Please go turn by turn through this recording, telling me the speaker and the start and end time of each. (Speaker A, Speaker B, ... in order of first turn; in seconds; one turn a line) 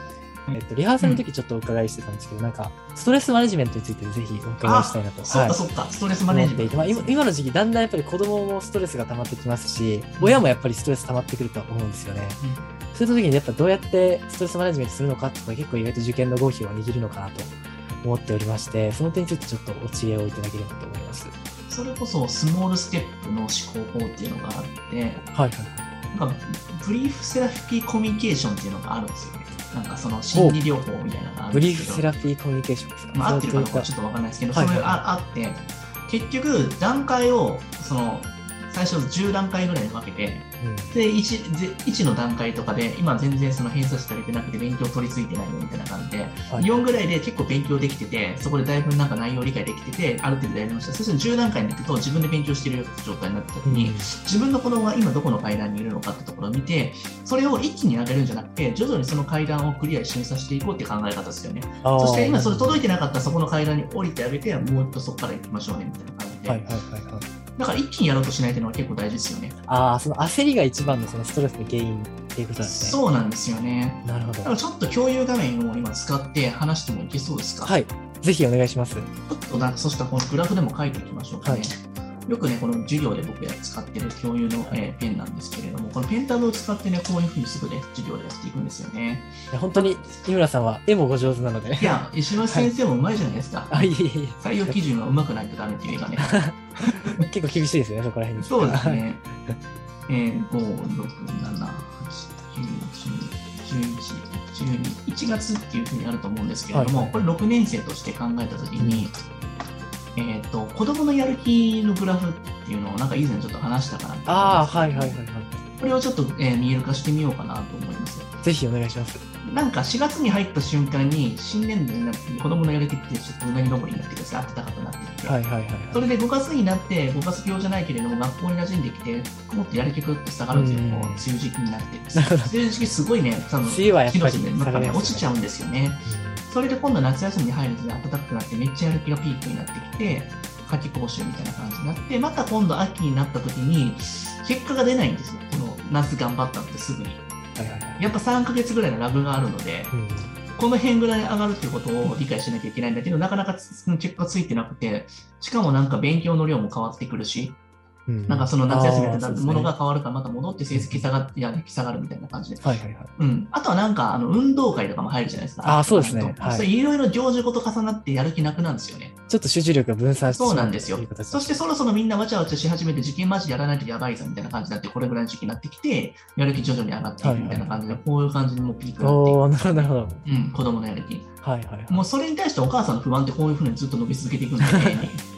Speaker A: 0.5-1.2
Speaker B: 0.5-5.6
Speaker A: 4.6-7.2
Speaker B: 6.3-12.4
Speaker A: 10.2-10.5
Speaker A: 12.4-12.7
Speaker B: 12.9-21.3
Speaker A: 21.7-25.2
Speaker B: 25.3-25.9
Speaker A: 26.1-32.1
Speaker B: 30.3-30.6
Speaker B: 31.5-33.9
Speaker A: 33.1-66.6
Speaker B: 34.5-35.0
Speaker B: 40.6-41.0
Speaker B: 46.5-46.9
Speaker B: 53.6-54.1
Speaker B: 61.8-62.8
Speaker B: 66.5-67.3
Speaker A: 67.6-69.5
Speaker B: 69.7-73.0
Speaker A: 72.6-77.8
Speaker B: 74.0-74.5
Speaker B: 77.6-79.1
Speaker A: 79.3-90.0
Speaker B: 81.4-81.7
Speaker B: 89.5-92.7
Speaker A: 91.8-93.9
Speaker B: 93.7-94.8
Speaker A: 94.4-97.1
Speaker B: 96.2-99.5
Speaker A: 98.4-99.2
Speaker A: 100.1-109.2
Speaker B: 106.7-107.3
Speaker B: 108.8-109.1
Speaker A: 110.2-115.2
Speaker B: 114.2-115.6
Speaker A: 115.8-118.3
Speaker B: 118.4-119.2
Speaker A: 119.4-125.4
Speaker B: 125.2-126.1
Speaker A: 125.9-147.3
Speaker B: 130.5-131.2
Speaker B: 132.2-132.5
Speaker B: 133.6-135.3
Speaker B: 136.1-136.4
Speaker B: 147.6-148.1
Speaker A: 148.0-149.9
Speaker B: 149.9-150.3
Speaker A: 150.6-157.6
Speaker B: 158.1-159.7
Speaker A: 158.3-162.6
Speaker B: 160.7-161.1
Speaker B: 162.6-163.1
Speaker A: 163.2-169.1
Speaker B: 165.6-166.7
Speaker B: 169.3-171.5
Speaker A: 170.3-181.3
Speaker B: 177.2-178.0
Speaker B: 179.0-180.2
Speaker B: 181.4-182.1
Speaker A: 181.9-185.2
Speaker B: 184.6-185.1